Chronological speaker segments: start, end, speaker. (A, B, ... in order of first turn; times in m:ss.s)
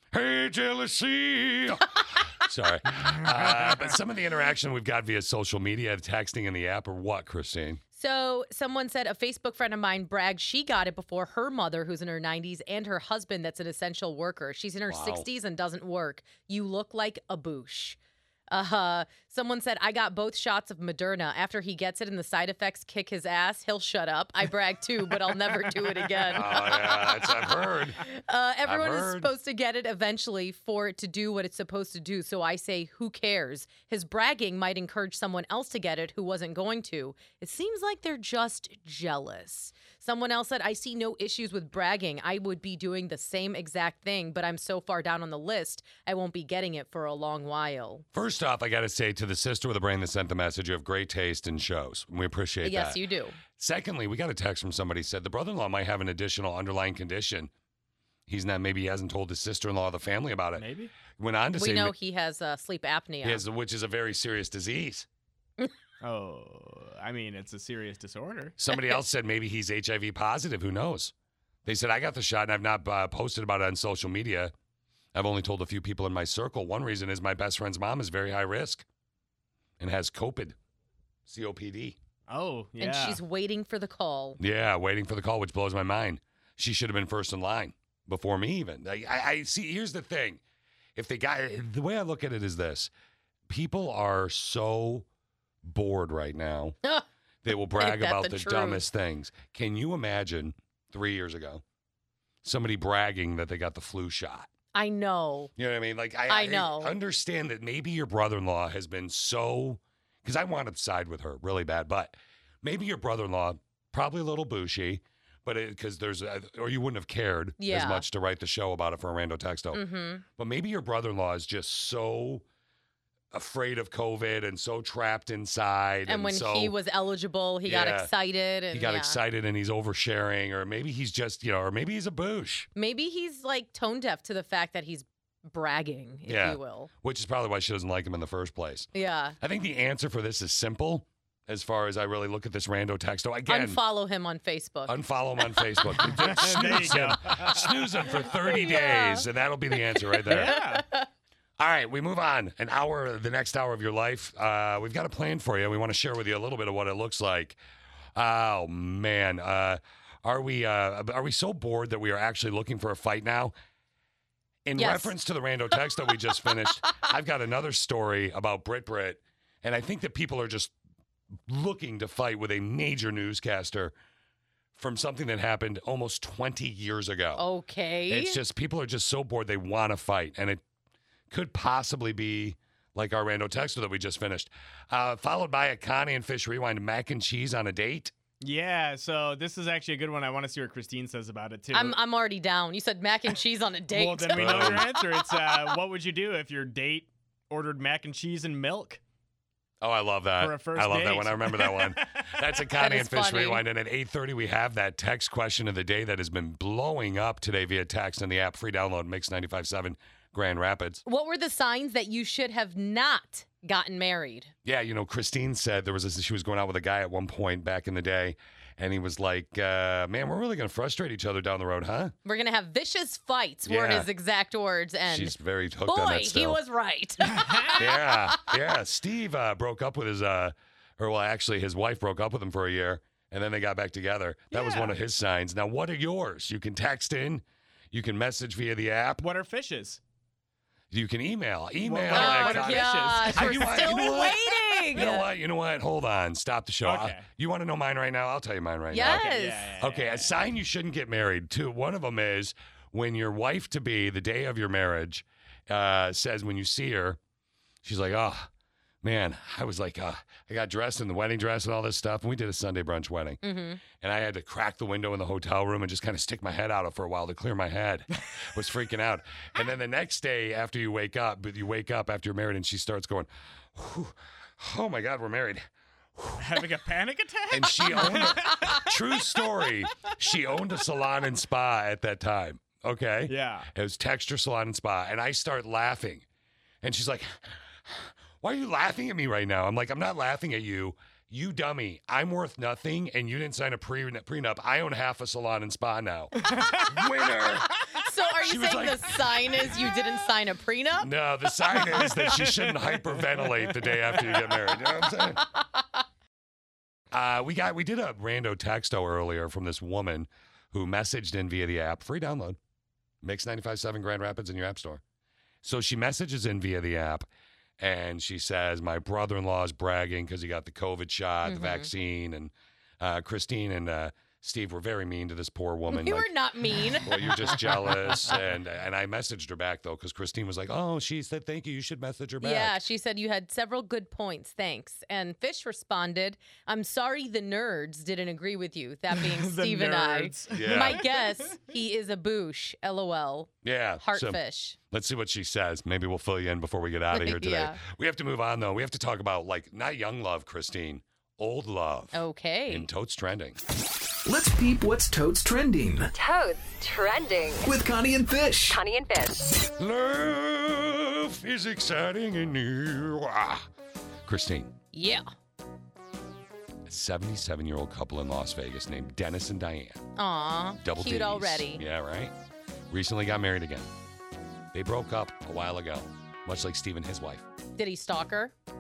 0:00.1-0:07.8 A
0:03.5-0:03.8 B
0:08.0-0:18.0 C
0:14.9-0:15.3 A
0:18.5-0:48.0 C
0:26.3-0:28.0 A
0:28.6-0:29.3 A
0:48.1-0:53.0 A
0:52.6-0:53.4 C
0:53.6-0:57.5 A
0:58.3-1:02.0 A
1:00.6-1:00.9 B
1:01.6-1:03.4 C
1:03.2-1:05.1 A
1:06.0-1:08.6 B
1:08.6-1:11.1 A
1:11.6-1:14.5 A
1:15.1-1:18.8 A
1:19.8-1:20.6 A
1:21.3-1:22.0 A
1:22.3-1:23.2 B
1:22.8-1:24.4 C
1:24.4-1:30.4 A
1:31.0-1:32.9 A
1:33.5-1:35.1 A
1:35.6-1:36.8 A
1:37.4-1:41.6 A
1:37.8-1:38.8 C
1:42.4-1:44.5 A
1:44.7-1:45.5 C
1:45.6-1:59.8 A
1:46.3-1:47.0 C
1:57.6-1:58.0 C
1:59.7-2:00.2 C
2:00.4-2:02.4 A
2:03.3-2:06.7 A
2:06.1-2:09.2 C
2:07.6-2:08.1 A
2:08.7-2:12.7 A
2:12.8-2:16.9 C
2:16.3-2:18.9 A
2:18.9-2:19.4 C
2:19.4-2:23.8 A
2:23.5-2:25.7 C
2:24.9-2:30.6 A
2:26.0-2:27.9 B
2:28.3-2:31.1 C
2:30.3-2:30.8 B
2:31.6-2:37.6 A
2:38.2-2:43.5 A
2:44.7-2:50.7 A
2:44.8-2:45.1 C
2:51.5-2:53.9 A
2:54.8-2:57.4 A
2:57.4-2:58.4 C
2:58.1-3:00.6 A
3:01.3-3:08.1 A
3:08.4-3:12.0 B
3:11.7-3:15.0 C
3:13.9-3:19.0 B
3:14.3-3:14.9 A
3:19.8-3:31.0 A
3:20.4-3:22.2 B
3:22.8-3:23.6 C
3:31.1-3:34.5 C
3:34.6-3:42.1 A
3:42.2-3:45.3 C
3:43.7-3:44.1 A
3:45.1-3:46.6 A
3:45.9-3:48.4 C
3:47.3-3:47.7 B
3:47.8-3:59.2 A
3:54.5-3:55.0 B
3:59.2-4:00.0 B
4:00.9-4:17.2 A
4:01.8-4:04.1 B
4:02.1-4:05.3 C
4:06.8-4:07.3 B
4:08.9-4:09.7 C
4:09.0-4:10.4 B
4:17.8-4:18.5 A
4:19.0-4:23.4 A
4:23.4-4:23.8 C
4:23.9-4:35.6 A
4:36.2-4:36.6 A
4:36.4-4:38.9 B
4:37.5-4:46.2 A
4:43.3-4:43.7 B
4:46.8-4:57.7 A
4:56.5-4:56.9 B
4:58.0-5:01.1 C
4:58.4-4:59.2 A
5:01.0-5:05.4 A
5:01.9-5:04.4 B
5:07.1-5:12.6 A
5:13.2-5:15.0 A
5:15.6-5:17.3 A
5:17.8-5:26.3 A
5:21.4-5:21.9 C
5:25.9-5:27.2 C
5:27.0-5:32.8 A
5:27.7-5:28.1 B
5:32.4-5:44.8 C
5:39.1-5:41.5 B
5:40.5-5:41.0 A
5:43.6-5:52.2 A
5:47.1-5:47.8 C
5:52.1-5:52.9 C
5:52.7-5:53.6 A
5:54.3-5:56.1 D
5:56.2-5:57.7 E
5:57.7-5:58.8 D
5:58.7-5:59.6 E
5:59.8-6:03.7 A
6:04.3-6:04.7 A
6:04.9-6:05.3 C
6:06.9-6:10.0 A
6:10.2-6:11.8 C
6:10.8-6:12.3 A
6:12.9-6:13.9 A
6:14.7-6:17.4 A
6:17.8-6:18.5 C